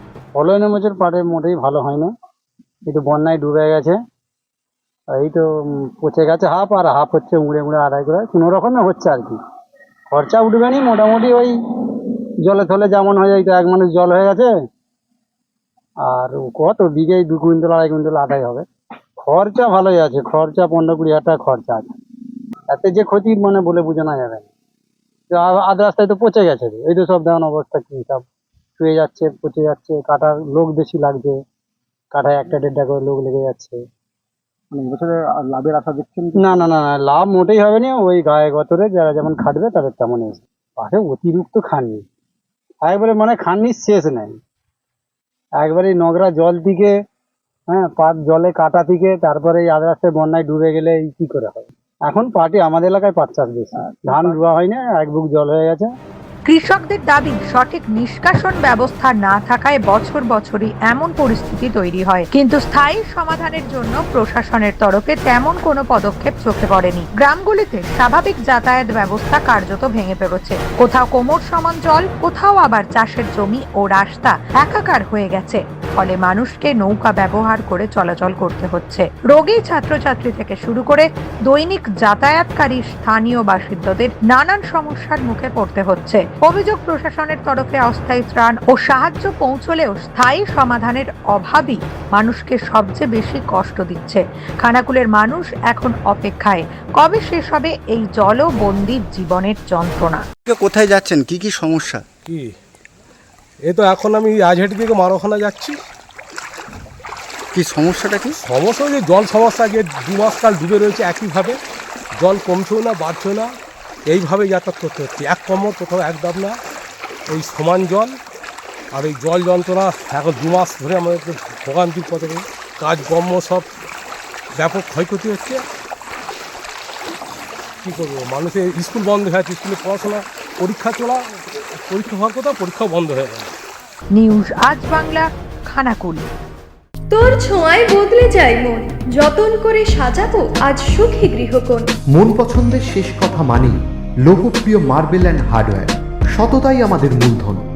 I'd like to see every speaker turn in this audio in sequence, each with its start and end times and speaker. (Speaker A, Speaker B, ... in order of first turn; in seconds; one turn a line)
Speaker A: 0.3-2.1
Speaker A: 2.9-4.0
Speaker A: 5.1-9.3
Speaker A: 10.1-11.5
Speaker A: 12.4-14.5
Speaker A: 16.0-18.6
Speaker A: 19.2-21.9
Speaker A: 22.7-24.4
Speaker A: 25.3-28.2
Speaker A: 28.8-31.3
Speaker A: 32.1-33.8
Speaker B: 34.7-36.6
Speaker A: 36.4-42.0
Speaker A: 42.8-44.3
Speaker A: 45.6-46.9
Speaker A: 47.7-55.9
Speaker B: 53.9-54.3
Speaker C: 56.5-100.2
Speaker D: 100.5-102.0
Speaker E: 102.2-102.5
Speaker E: 103.6-105.8
Speaker D: 107.5-108.3
Speaker B: 107.6-108.3
Speaker E: 108.4-111.6
Speaker E: 112.2-113.5
Speaker E: 114.0-116.5
Speaker E: 117.3-118.1
Speaker E: 118.9-123.7
Speaker E: 124.5-125.6
Speaker E: 127.8-131.2
Speaker E: 131.9-133.5
Speaker C: 134.1-136.2
Speaker F: 137.1-141.9
Speaker G: 142.1-147.6